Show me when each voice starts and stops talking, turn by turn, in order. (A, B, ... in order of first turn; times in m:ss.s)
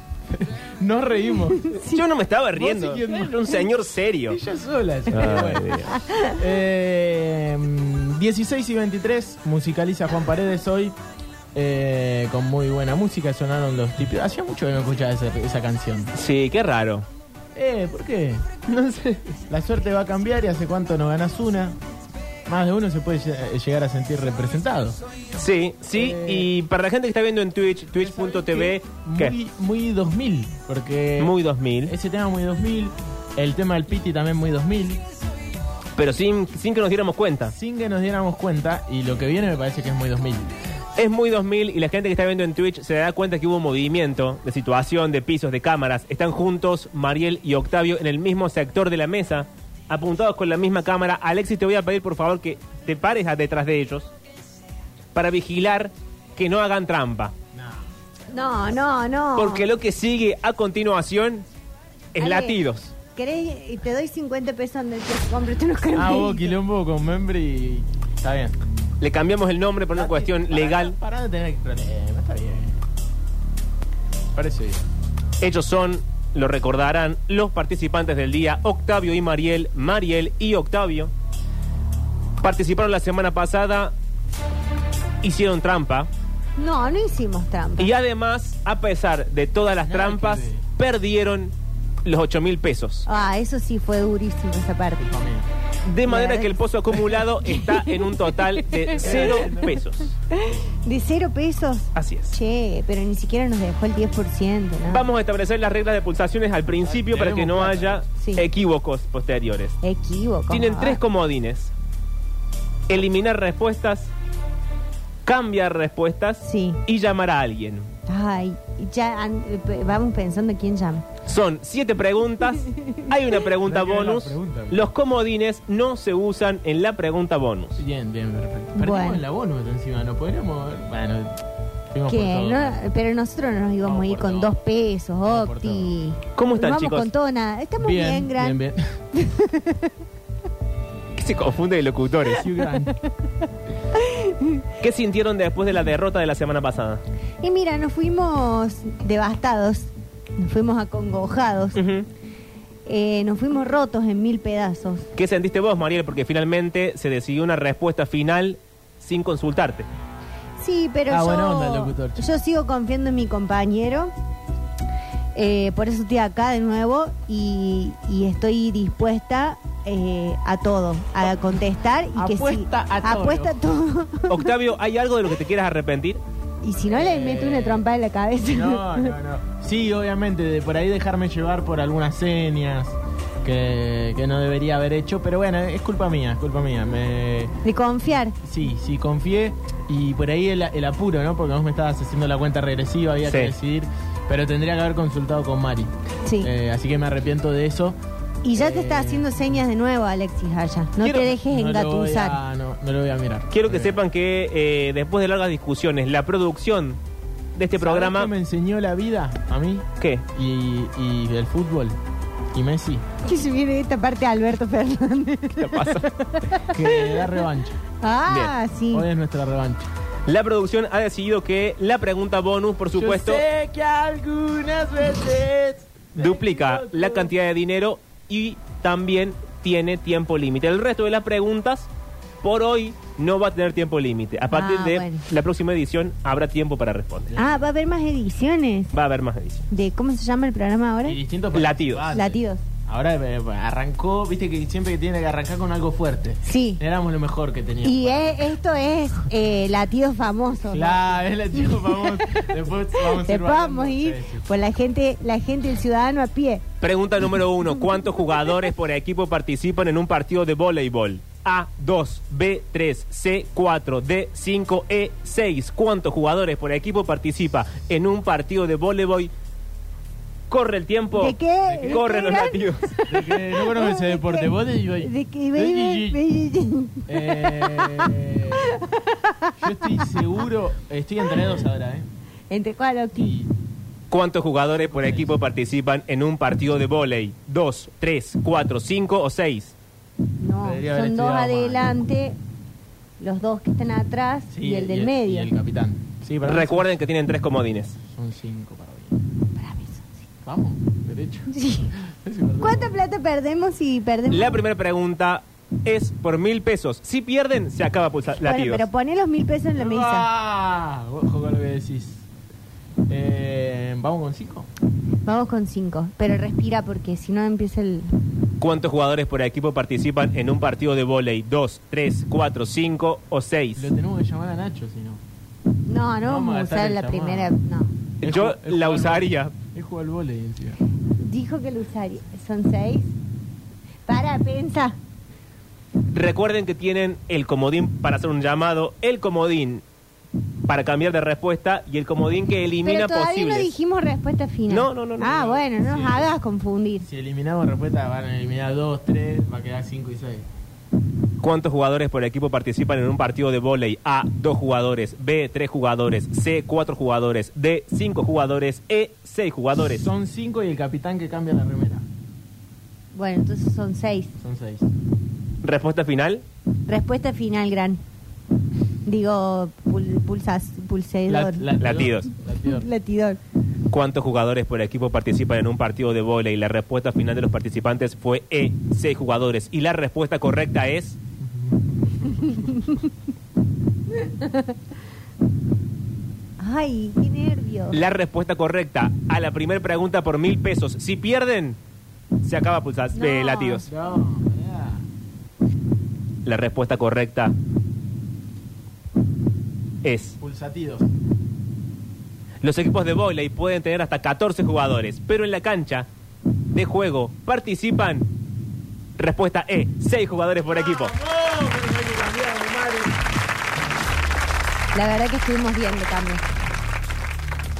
0:00.3-0:01.7 A
0:01.6-0:02.0 B
0:01.8-0:04.4 C
0:02.6-0:03.6 A
0:04.3-0:10.9 A
0:05.1-0:06.0 C
0:05.9-0:06.4 B
0:11.5-0:16.1 A
0:16.1-0:17.1 C
0:17.5-0:18.4 A
0:18.7-0:19.2 C
0:19.5-0:21.8 A
0:22.5-0:25.0 A
0:25.3-0:29.4 C
0:25.9-0:26.5 A
0:27.9-0:35.0 A
0:31.2-0:31.9 C
0:36.0-0:37.5 C
0:37.5-0:40.5 A
0:41.0-0:54.1 C
0:55.1-0:57.3 C
0:57.5-0:57.9 A
0:58.3-0:59.6 B
0:59.4-1:01.4 C
1:02.1-1:02.9 C
1:02.2-1:02.6 B
1:03.1-1:06.5 B
1:05.9-1:08.6 A
1:09.0-1:11.0 C
1:09.9-1:12.8 A
1:14.3-1:14.9 A
1:15.4-1:21.1 C
1:22.4-1:23.9 C
1:25.2-1:26.1 C
1:26.6-1:27.9 B
1:27.8-1:31.5 C
1:29.7-1:30.6 A
1:32.0-1:33.0 C
1:33.0-1:35.1 B
1:35.1-1:35.5 A
1:35.8-1:40.1 C
1:36.0-1:39.6 B
1:38.9-1:39.8 A
1:40.3-1:45.1 B
1:41.9-1:42.3 C
1:44.9-1:49.8 C
1:46.8-1:48.0 A
1:48.2-1:48.4 B
1:49.8-1:51.0 B
1:50.5-1:51.7 C
1:52.9-1:54.1 C
1:55.2-1:57.9 C
1:56.4-1:56.8 B
1:58.1-2:01.0 B
2:01.2-2:07.8 C
2:02.6-2:03.0 B
2:03.6-2:04.9 A
2:07.8-2:12.8 A
2:08.7-2:09.2 B
2:12.1-2:18.6 B
2:13.8-2:14.6 A
2:15.2-2:15.9 A
2:16.4-2:17.1 C
2:17.8-2:18.8 A
2:19.1-2:19.9 B
2:21.1-2:22.5 C
2:22.4-2:23.0 A
2:23.9-2:24.6 B
2:24.8-2:27.0 C
2:27.4-2:31.8 B
2:31.7-2:32.1 C
2:32.8-2:35.1 B
2:35.2-2:39.9 C
2:40.6-2:44.1 B
2:41.1-2:42.3 A
2:45.3-2:54.4 B
2:52.1-2:53.6 A
2:54.3-2:56.2 C
2:56.6-2:59.1 B
2:56.9-2:57.8 A
2:58.5-3:07.5 A
3:07.6-3:08.4 B
3:08.3-3:18.0 A
3:13.3-3:13.5 C
3:16.2-3:16.5 B
3:18.4-3:22.4 B
3:18.5-3:19.4 A
3:21.0-3:21.4 C
3:21.4-3:24.0 A
3:23.5-3:27.0 C
3:27.5-3:28.3 C
3:27.8-3:32.0 A
3:30.0-3:30.2 C
3:32.5-3:33.0 A
3:33.2-3:37.4 B
3:35.6-3:36.1 C
3:36.7-3:37.8 A
3:38.0-3:39.1 B
3:38.3-3:38.5 C
3:38.9-3:39.9 A
3:40.3-3:43.4 C
3:42.9-3:47.3 A
3:46.2-3:51.9 C
3:52.4-3:57.3 C
3:54.5-3:55.2 B
3:57.4-3:58.9 B
3:58.9-3:59.7 C
3:59.7-4:01.2 B
4:01.0-4:08.4 A
4:01.5-4:02.2 C
4:02.1-4:02.6 B
4:06.4-4:06.8 B
4:07.8-4:11.0 B
4:10.7-4:14.5 A
4:11.8-4:12.4 B
4:13.0-4:16.6 B
4:16.8-4:29.3 C
4:30.5-4:32.9 C
4:31.2-4:40.2 B
4:31.6-4:32.0 A
4:33.1-4:36.2 A
4:37.1-4:38.6 A
4:39.6-4:42.1 A
4:42.5-4:43.3 B
4:43.1-4:43.5 A
4:44.1-4:49.7 C
4:44.8-4:45.4 A
4:50.4-4:52.4 B
4:50.6-4:52.0 A
4:53.2-4:55.5 B
4:54.5-4:57.0 A
4:56.4-4:58.0 C
4:58.1-4:59.2 A
4:59.6-5:00.1 B
5:00.4-5:03.0 A
5:01.5-5:01.9 B
5:02.6-5:04.6 B
5:04.3-5:08.9 C
5:08.4-5:10.3 B
5:09.7-5:12.2 A
5:13.1-5:14.7 A
5:15.2-5:18.2 B
5:18.6-5:23.9 C
5:23.8-5:25.2 A
5:25.9-5:27.9 B
5:26.2-5:27.5 A
5:28.2-5:29.5 C
5:28.2-5:30.8 A
5:31.2-5:33.1 B
5:34.1-5:35.0 B
5:36.1-5:39.8 C
5:40.7-5:43.7 C
5:42.8-5:47.1 B
5:44.7-5:45.6 C
5:45.8-5:46.3 A
5:47.0-5:50.5 A
5:51.4-6:00.1 C
5:59.8-6:02.0 A
6:03.1-6:04.3 B
6:04.4-6:04.9 A
6:05.6-6:06.4 C
6:06.9-6:08.0 B
6:09.0-6:11.7 B
6:11.3-6:12.9 A
6:11.8-6:12.3 C
6:12.7-6:13.4 B
6:13.9-6:21.2 C
6:21.5-6:22.7 A
6:22.3-6:23.0 B
6:24.1-6:24.8 B
6:26.6-6:28.0 B
6:27.9-6:31.8 C
6:32.4-6:33.8 C
6:33.1-6:33.8 B
6:33.8-6:35.0 A
6:36.4-6:37.5 C
6:40.0-6:40.4 C
6:40.4-6:41.1 A
6:42.6-6:46.1 C
6:46.7-6:48.3 C
6:49.2-6:51.1 C
6:50.7-6:53.2 A
6:54.9-6:56.4 B